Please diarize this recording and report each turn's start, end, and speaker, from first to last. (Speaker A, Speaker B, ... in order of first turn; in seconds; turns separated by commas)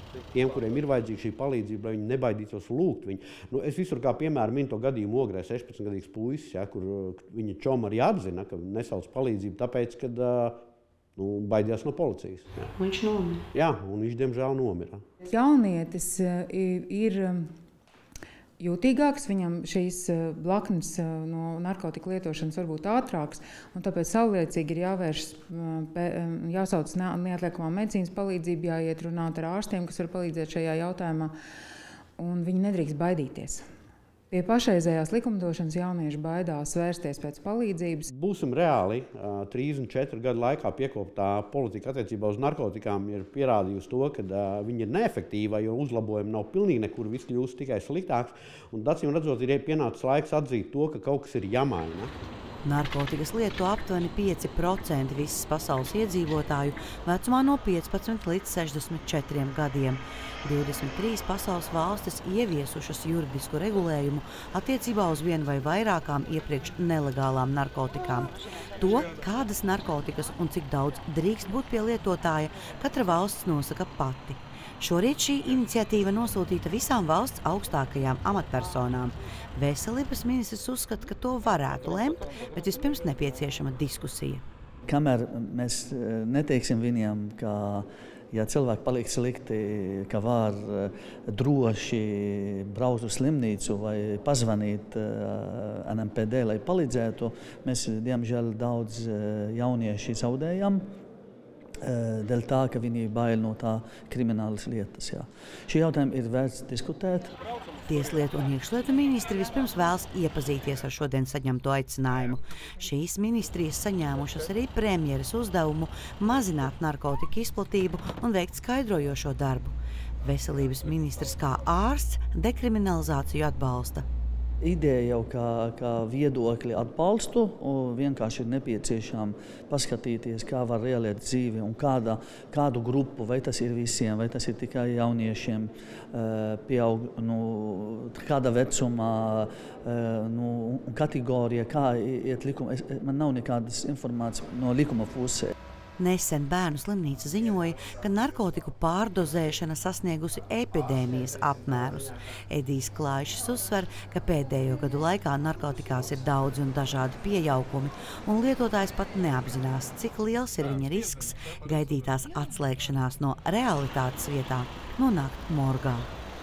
Speaker A: 0.3-10.6, Speaker A: 11.2-12.7, Speaker A: 13.5-15.0, Speaker B: 15.2-17.5, Speaker B: 18.6-31.3, Speaker B: 32.2-33.7, Speaker B: 34.3-38.1, Speaker A: 38.1-52.1, Speaker C: 52.6-84.4, Speaker D: 84.9-100.8, Speaker D: 101.8-107.3, Speaker C: 107.9-124.1, Speaker D: 124.6-145.5, Speaker C: 146.0-166.1